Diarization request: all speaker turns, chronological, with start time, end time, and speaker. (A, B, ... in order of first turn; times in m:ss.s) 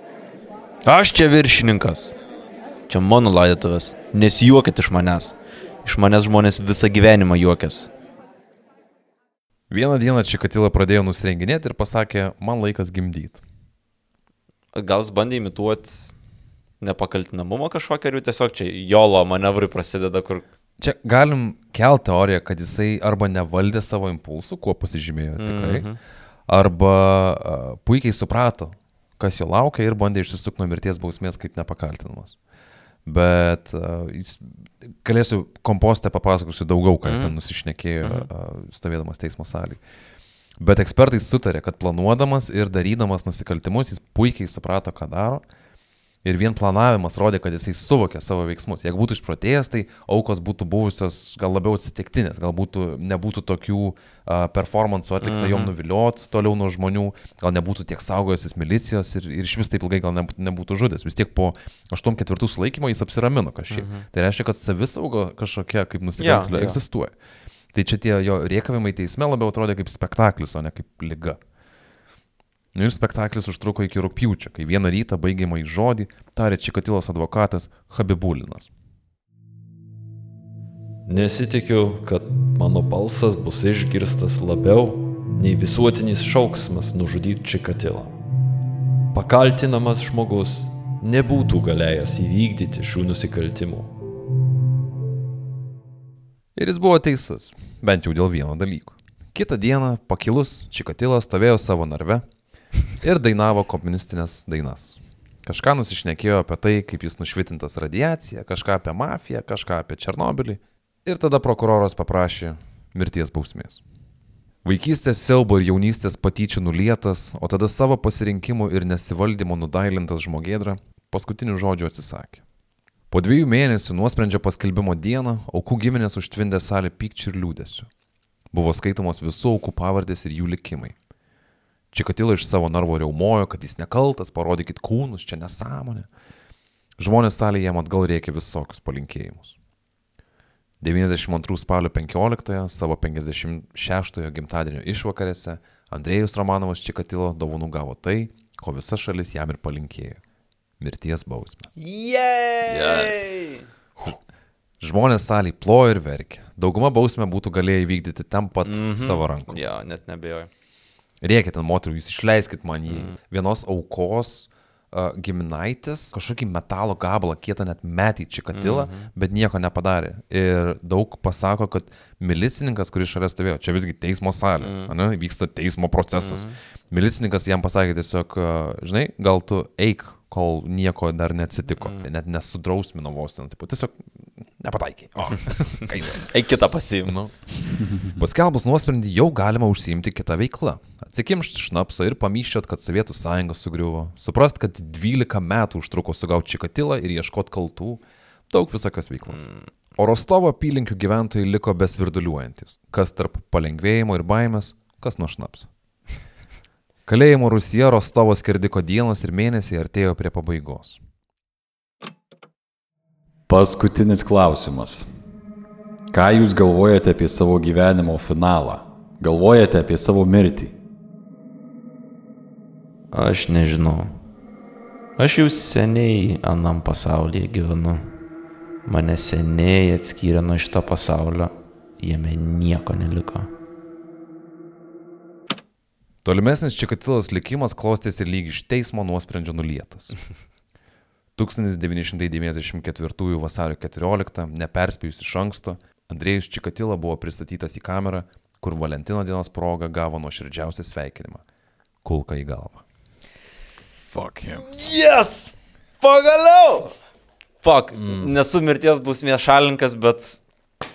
0:00.8-0:02.2 A
0:02.9-0:07.9 A
0:09.7-0:13.4 B
0:14.8-0:16.1 A
0:16.8-0:20.4 A
0:20.8-0:25.9 B
0:25.4-0:26.0 A
0:26.5-0:32.4 B
0:33.1-0:39.8 B
0:37.0-0:37.4 A
0:38.0-0:38.3 A
0:40.6-0:45.4 B
0:46.2-1:07.1 B
0:55.2-0:55.7 A
1:03.7-1:04.0 A
1:06.2-1:06.8 A
1:07.7-1:11.4 B
1:12.8-1:18.7 B
1:21.1-1:28.2 C
1:29.1-1:33.9 C
1:36.6-1:42.3 B
1:42.9-1:53.8 B
1:54.6-2:02.4 B
2:03.1-2:07.9 B
2:08.5-2:11.0 B
2:11.9-2:16.1 B
2:17.0-2:19.6 B
2:20.8-2:30.2 B
2:30.8-2:31.7 B
2:31.8-2:33.6 A
2:32.8-2:33.1 B
2:34.8-2:39.6 B
2:38.6-2:40.5 A
2:41.2-3:04.0 B
2:42.9-2:43.2 A
2:48.5-2:49.1 A
2:54.6-2:54.9 A
2:56.2-2:56.6 A
3:01.8-3:02.1 A
3:04.6-3:06.3 B
3:06.1-3:07.2 A
3:07.0-3:25.7 B
3:19.3-3:19.6 A
3:27.1-3:31.0 B
3:33.5-3:35.1 D
3:36.1-3:40.7 D
3:43.1-3:44.2 A
3:45.2-3:48.1 A
3:48.9-3:53.5 A
3:56.2-4:00.3 B
4:01.4-4:11.4 B
4:12.0-4:12.8 B
4:14.1-4:14.7 D
4:14.7-4:15.5 A
4:16.0-4:17.0 A
4:17.6-4:20.4 A
4:18.0-4:18.3 C